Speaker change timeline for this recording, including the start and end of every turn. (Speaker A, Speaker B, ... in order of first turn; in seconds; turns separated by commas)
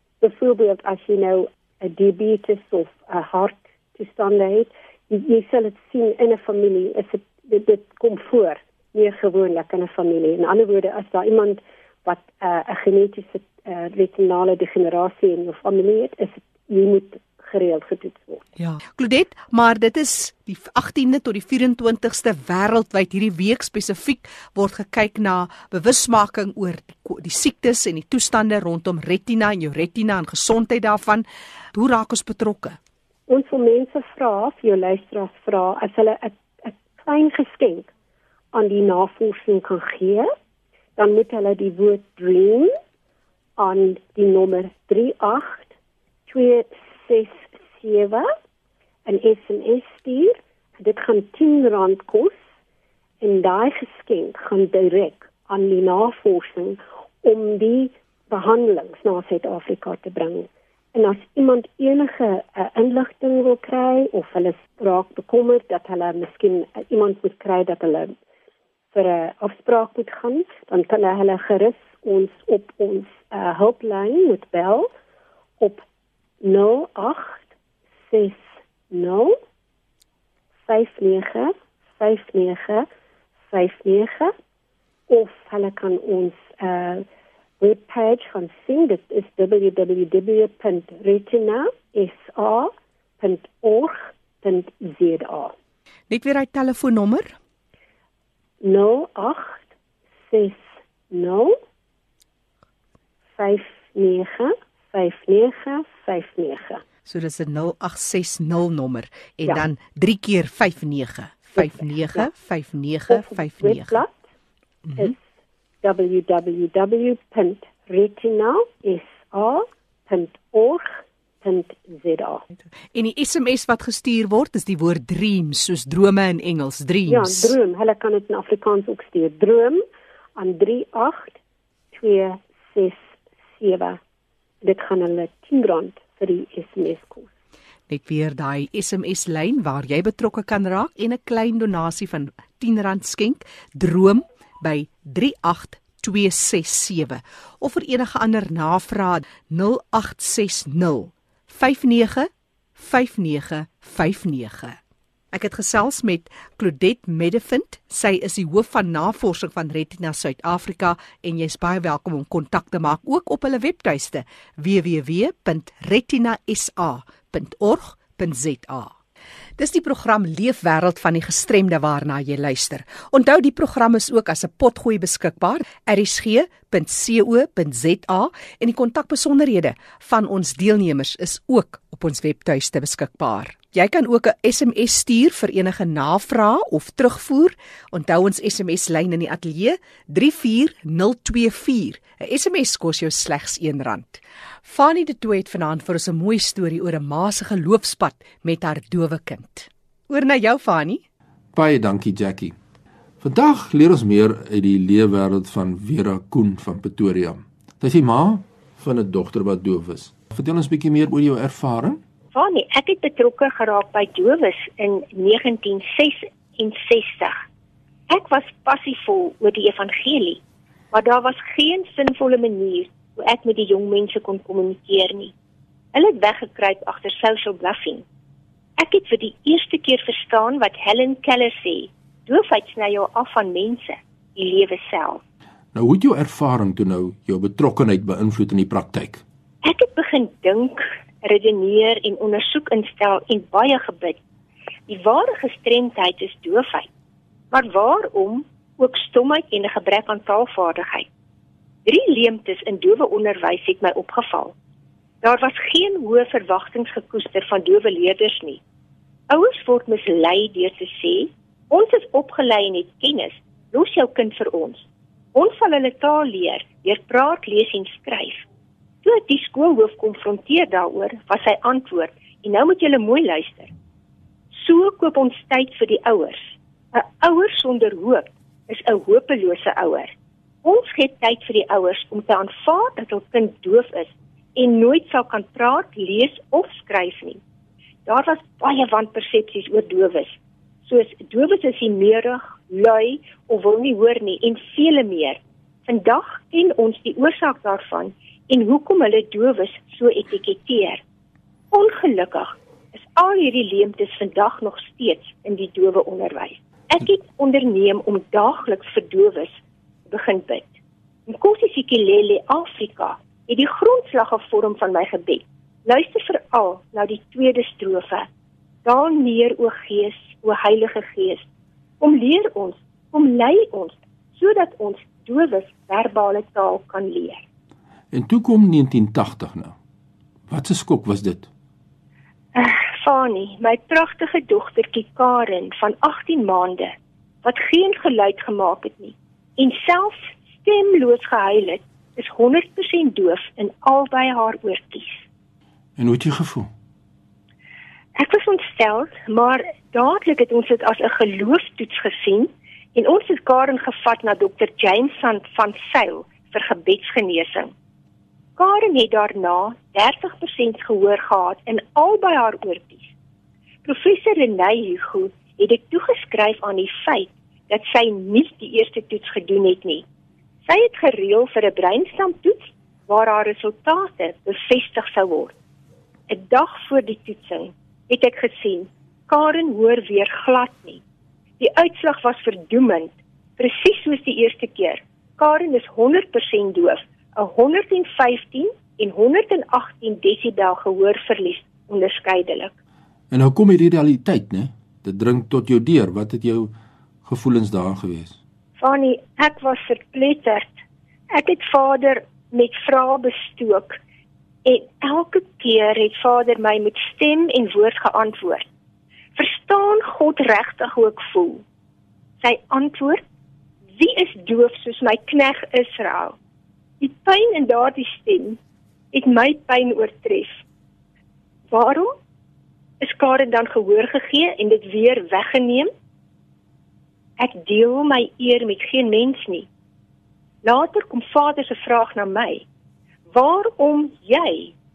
Speaker A: 0.2-18.4, Speaker B: 18.6-32.8, Speaker A: 33.3-37.9, Speaker A: 38.5-40.3, Speaker A: 41.0-42.7, Speaker A: 43.6-45.7, Speaker A: 46.3-48.3, Speaker A: 49.0-52.4, Speaker A: 53.2-68.1, Speaker A: 68.9-74.9, Speaker A: 75.6-75.8, Speaker A: 76.4-77.5, Speaker A: 78.1-79.3, Speaker A: 80.7-82.8, Speaker A: 83.5-84.3, Speaker A: 85.1-87.0, Speaker A: 87.6-95.5, Speaker B: 96.1-97.3, Speaker A: 98.6-99.7, Speaker A: 100.3-101.5, Speaker A: 103.4-106.8, Speaker B: 107.0-114.0, Speaker A: 111.5-112.3, Speaker A: 113.1-114.2, Speaker A: 115.8-122.4, Speaker B: 122.9-127.5, Speaker A: 127.1-129.8, Speaker A: 130.3-131.4, Speaker A: 131.9-134.0, Speaker A: 134.6-137.3, Speaker B: 137.9-154.8, Speaker B: 155.3-168.9, Speaker B: 169.6-201.0, Speaker C: 201.5-202.5, Speaker C: 203.2-212.0, Speaker D: 212.3-217.4, Speaker D: 218.1-220.4, Speaker D: 220.9-225.3, Speaker D: 225.9-228.0, Speaker D: 228.8-235.2, Speaker C: 235.7-239.2, Speaker D: 239.6-244.2, Speaker D: 244.9-246.9, Speaker D: 247.5-251.1, Speaker D: 251.8-254.5, Speaker D: 255.2-258.6, Speaker D: 259.3-268.4, Speaker D: 269.0-273.7, Speaker D: 274.5-280.1, Speaker D: 280.6-287.4, Speaker D: 288.1-301.0, Speaker D: 301.7-310.7, Speaker D: 311.3-318.2, Speaker D: 318.8-321.4, Speaker D: 322.0-327.4, Speaker C: 328.1-329.7, Speaker C: 330.5-331.5, Speaker D: 332.5-345.2, Speaker C: 346.0-346.7, Speaker D: 348.1-357.7, Speaker D: 358.6-363.1, Speaker D: 363.8-370.0, Speaker D: 370.6-375.5, Speaker D: 376.3-381.0, Speaker D: 381.6-392.7, Speaker C: 393.3-396.7, Speaker C: 397.2-398.4, Speaker D: 398.8-400.7, Speaker D: 401.3-404.0, Speaker D: 404.6-408.7, Speaker D: 409.4-411.6, Speaker D: 412.4-413.2, Speaker D: 414.0-416.4, Speaker D: 417.0-418.6, Speaker D: 419.1-420.6, Speaker D: 421.7-422.1, Speaker D: 423.0-425.9, Speaker D: 427.4-429.7, Speaker D: 430.6-432.6, Speaker D: 433.3-434.7